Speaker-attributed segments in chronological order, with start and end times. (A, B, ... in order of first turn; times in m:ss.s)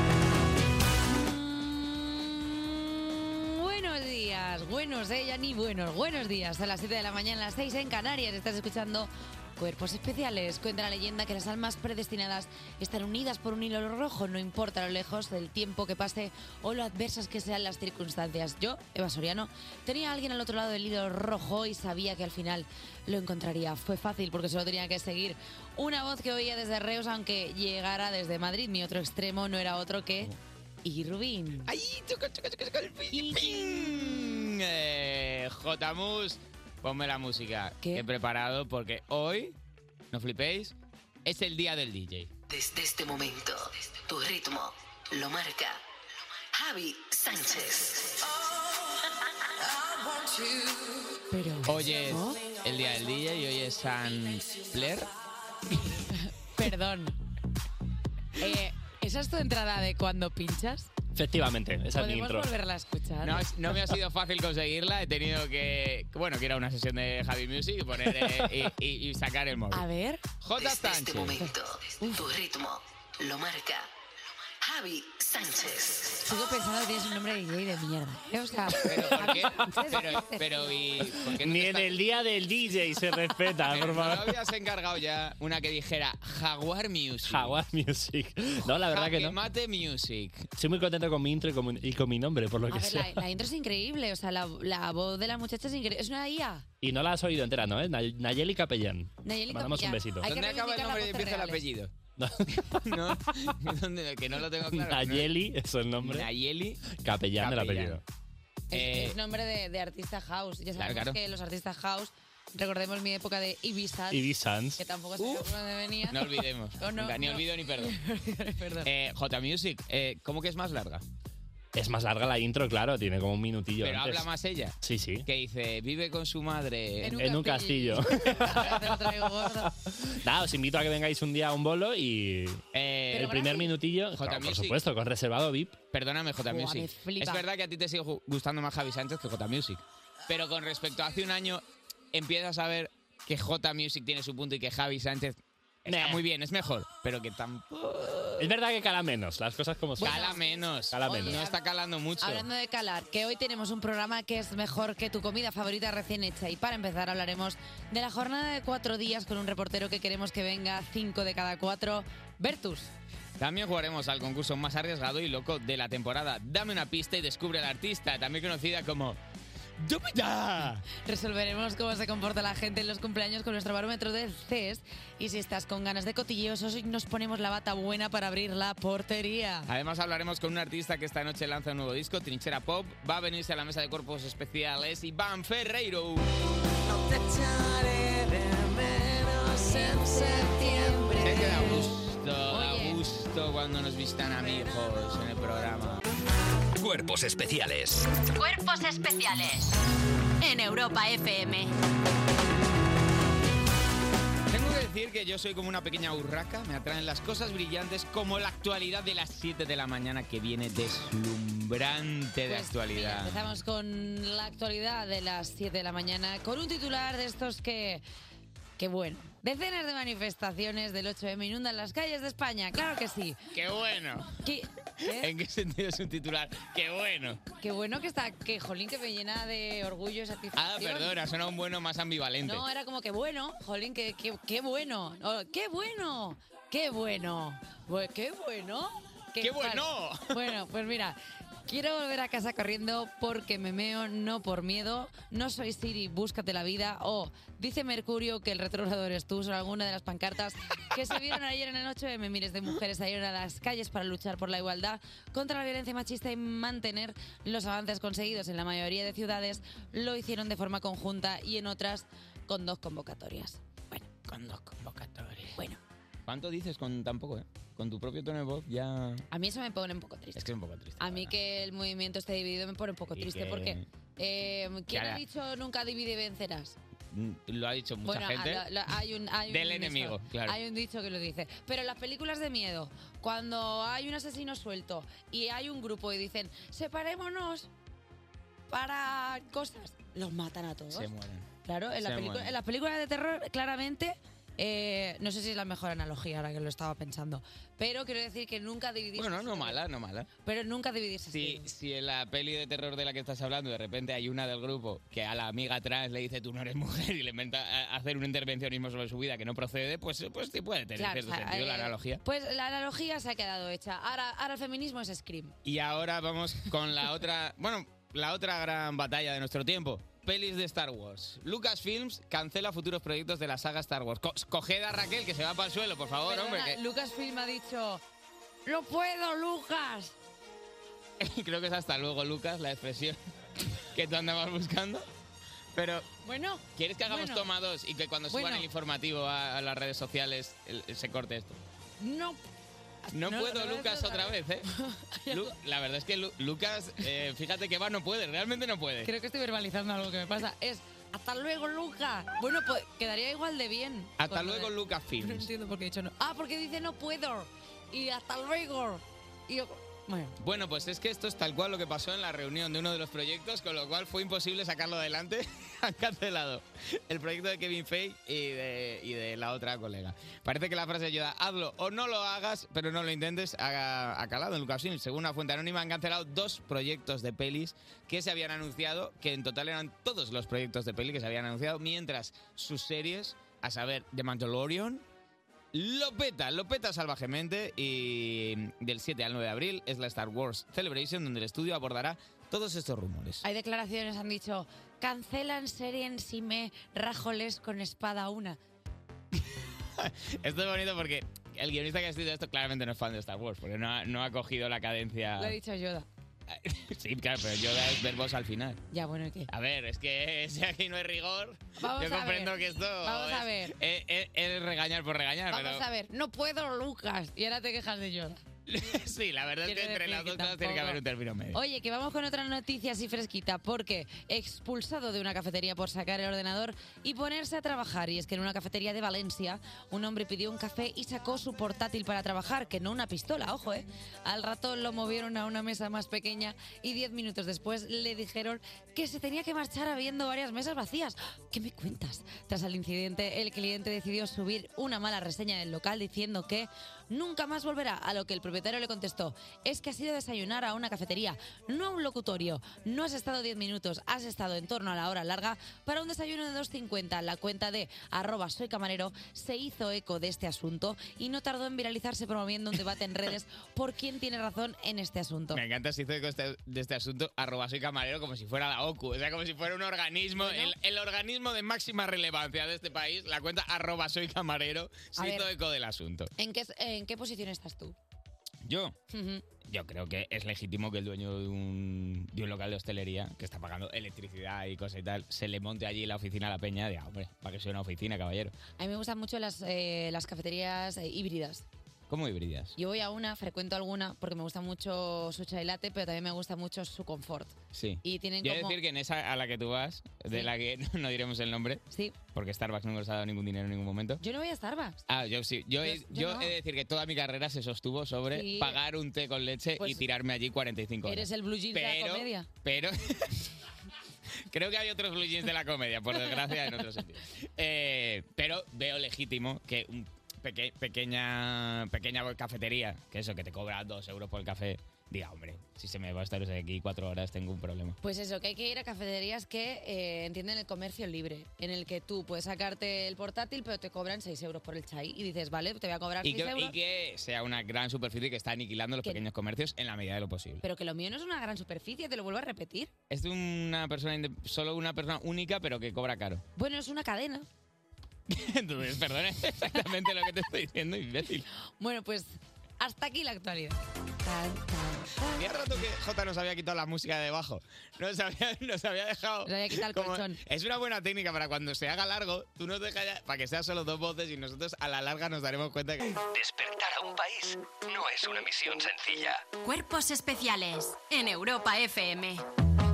0:01.1-0:30.3 A
0:30.8-0:31.7 A
0:31.7-0:39.6 B
0:33.1-0:34.3 A
0:40.1-0:42.3 B
0:42.5-0:45.8 C
0:46.5-0:48.4 C
0:51.3-0:52.4 A
0:51.6-0:55.1 B
0:56.1-0:57.2 A
0:58.4-1:00.9 A
1:01.1-1:02.5 D
1:01.9-1:03.4 A
1:03.2-1:09.8 B
1:09.7-1:10.2 A
1:10.4-1:11.4 B
1:10.6-1:13.9 C
1:11.4-1:12.2 A
1:14.6-1:16.2 C
1:16.2-1:21.0 A
1:18.8-1:21.9 B
1:21.3-1:24.3 D
1:23.7-1:27.6 B
1:27.3-1:29.3 D
1:28.9-1:30.4 B
1:30.6-1:33.2 D
1:32.7-1:36.6 A
1:36.8-1:40.2 D
1:39.2-1:41.6 A
1:40.2-1:41.9 B
1:42.2-1:42.7 D
1:42.5-1:45.3 B
1:44.7-1:46.3 D
1:46.0-1:46.8 B
1:46.9-1:48.0 D
1:47.4-1:48.0 B
1:48.7-1:49.2 B
1:48.7-1:54.2 A
1:50.8-1:51.2 B
1:54.1-1:54.8 D
1:54.8-1:58.9 A
1:55.2-1:55.5 B
1:56.1-1:57.9 B
1:58.8-2:01.0 B
2:01.7-2:04.2 D
2:03.8-2:07.2 B
2:04.8-2:05.2 D
2:07.0-2:09.7 A
2:07.2-2:12.6 D
2:12.7-2:13.4 B
2:13.1-2:13.7 A
2:13.1-2:15.8 D
2:14.1-2:14.8 B
2:15.9-2:28.5 B
2:16.5-2:17.4 A
2:25.9-2:26.2 D
2:28.4-2:30.1 D
2:30.0-2:30.4 A
2:30.0-2:32.4 B
2:30.9-2:31.4 D
2:31.0-2:31.6 A
2:32.2-2:42.9 A
2:43.4-2:49.2 B
2:49.8-2:50.8 B
2:51.0-2:59.7 A
2:59.7-3:06.2 B
3:07.2-3:08.0 A
3:09.2-3:11.9 A
3:11.2-3:16.0 B
3:12.5-3:13.0 A
3:16.8-3:18.1 E
3:18.3-3:19.7 F
3:20.4-3:21.7 F
3:24.5-3:33.5 B
3:32.5-3:38.0 A
3:38.8-3:43.4 A
3:43.5-3:44.4 B
3:44.4-3:45.3 A
3:45.0-3:47.4 B
3:47.6-3:51.2 A
3:50.5-3:52.6 B
3:52.4-4:24.0 A
3:59.4-4:00.3 B
4:24.2-4:25.6 B
4:26.3-4:29.2 B
4:29.3-4:36.8 A
4:30.4-4:31.3 B
4:33.1-4:33.8 B
4:34.9-4:35.2 B
4:37.1-4:38.6 B
4:38.0-4:47.7 A
4:39.5-4:40.6 B
4:48.7-4:51.1 A
4:50.9-4:51.5 B
4:51.6-4:59.8 A
4:52.0-4:52.5 B
4:59.2-5:00.3 B
5:00.4-5:01.7 A
5:01.3-5:12.2 B
5:11.0-5:15.5 A
5:15.6-5:26.8 B
5:26.2-5:28.0 A
5:28.6-5:30.1 A
5:31.2-5:33.2 B
5:33.9-5:35.0 B
5:35.8-5:36.0 B
5:36.2-5:37.5 A
5:36.8-5:41.6 B
5:38.3-5:38.7 A
5:42.0-5:42.4 A
5:43.1-5:45.5 A
5:43.1-5:44.7 B
5:45.3-5:49.1 B
5:49.0-6:00.4 A
5:54.2-5:55.5 B
6:00.4-6:25.0 B
6:25.7-6:33.4 B
6:33.4-6:38.6 A
6:39.5-6:45.6 B
6:45.4-6:46.1 A
6:46.5-6:48.8 B
6:48.9-6:49.5 A
6:49.5-6:55.8 B
6:51.8-6:53.7 A
6:55.5-6:58.4 A
6:58.7-7:01.6 B
6:59.6-7:01.0 A
7:01.5-7:45.6 A
7:45.5-7:56.3 B
7:50.4-7:50.7 A
7:55.2-7:55.5 A
7:56.4-7:57.9 A
7:58.6-7:59.0 B
7:59.1-7:59.4 A
7:59.7-8:08.6 B
8:08.8-8:11.6 A
8:12.1-8:12.7 B
8:12.8-8:18.8 A
8:17.7-8:21.8 B
8:22.3-8:24.2 B
8:24.2-8:25.0 A
8:25.1-8:33.4 B
8:25.8-8:26.5 A
8:28.3-8:28.8 A
8:31.0-8:32.5 A
8:34.5-8:48.0 B
8:48.0-8:56.8 A
8:56.2-9:00.6 B
9:00.6-9:02.9 A
9:03.1-9:06.4 B
9:06.6-9:07.4 A
9:08.3-9:11.4 B
9:11.8-9:15.8 A
9:15.3-9:26.2 B
9:19.4-9:20.4 A
9:26.3-9:29.4 E
9:29.6-9:32.4 F